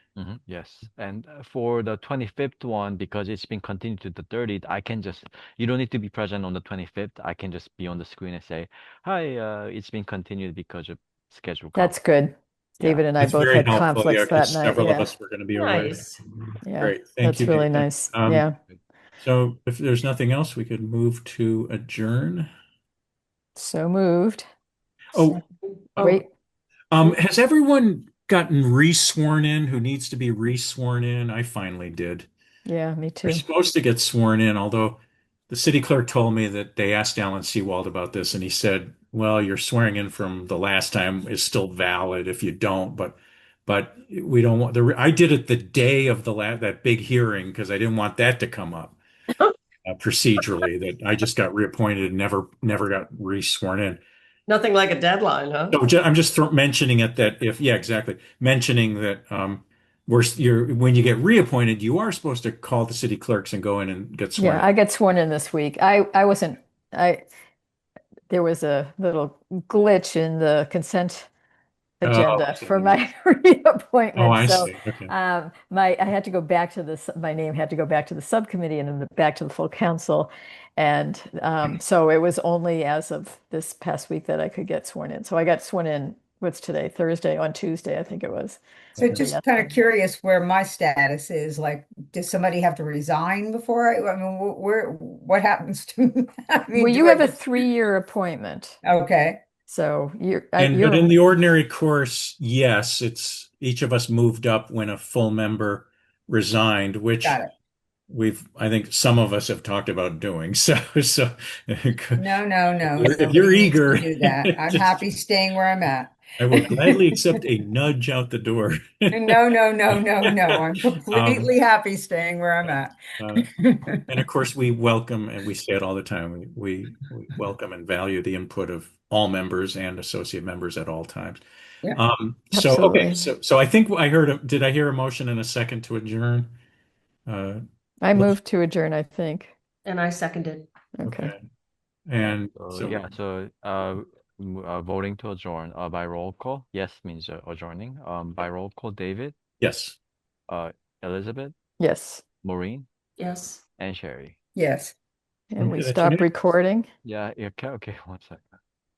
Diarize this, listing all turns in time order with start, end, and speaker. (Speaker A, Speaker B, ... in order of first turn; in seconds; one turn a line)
Speaker A: 0.1-12.0
Speaker B: 11.7-15.1
Speaker C: 13.2-18.4
Speaker D: 15.5-16.2
Speaker B: 16.6-18.6
Speaker C: 19.2-22.5
Speaker B: 23.6-24.4
Speaker C: 25.1-25.4
Speaker C: 25.9-26.2
Speaker B: 26.0-26.3
Speaker C: 26.9-32.3
Speaker B: 32.6-33.4
Speaker C: 33.2-49.0
Speaker C: 49.8-54.0
Speaker D: 54.5-55.8
Speaker C: 55.7-64.7
Speaker B: 64.4-67.2
Speaker B: 68.3-71.3
Speaker B: 72.0-89.7
Speaker C: 72.0-73.0
Speaker C: 74.2-75.1
Speaker C: 89.0-89.2
Speaker E: 89.0-97.6
Speaker B: 96.8-98.8
Speaker E: 98.8-99.4
Speaker B: 99.7-101.2
Speaker C: 100.6-107.4
Speaker E: 107.2-107.5
Speaker C: 108.1-112.3
Speaker E: 112.2-117.2
Speaker C: 112.9-115.0
Speaker C: 116.4-120.6
Speaker E: 119.1-124.0
Speaker C: 121.1-121.5
Speaker C: 123.2-123.5
Speaker C: 124.1-131.4
Speaker C: 131.9-136.5
Speaker B: 132.5-133.3
Speaker C: 137.3-137.6
Speaker B: 138.0-139.5
Speaker D: 139.8-140.7
Speaker B: 141.0-141.3
Speaker C: 141.0-141.4
Speaker C: 142.1-143.1
Speaker A: 142.2-149.3
Speaker C: 149.6-150.0
Speaker A: 150.5-151.5
Speaker B: 151.8-152.2
Speaker A: 152.4-152.9
Speaker D: 153.2-153.6
Speaker A: 153.8-154.3
Speaker E: 154.6-154.9
Speaker B: 155.5-156.9
Speaker C: 155.6-156.3
Speaker A: 157.0-158.6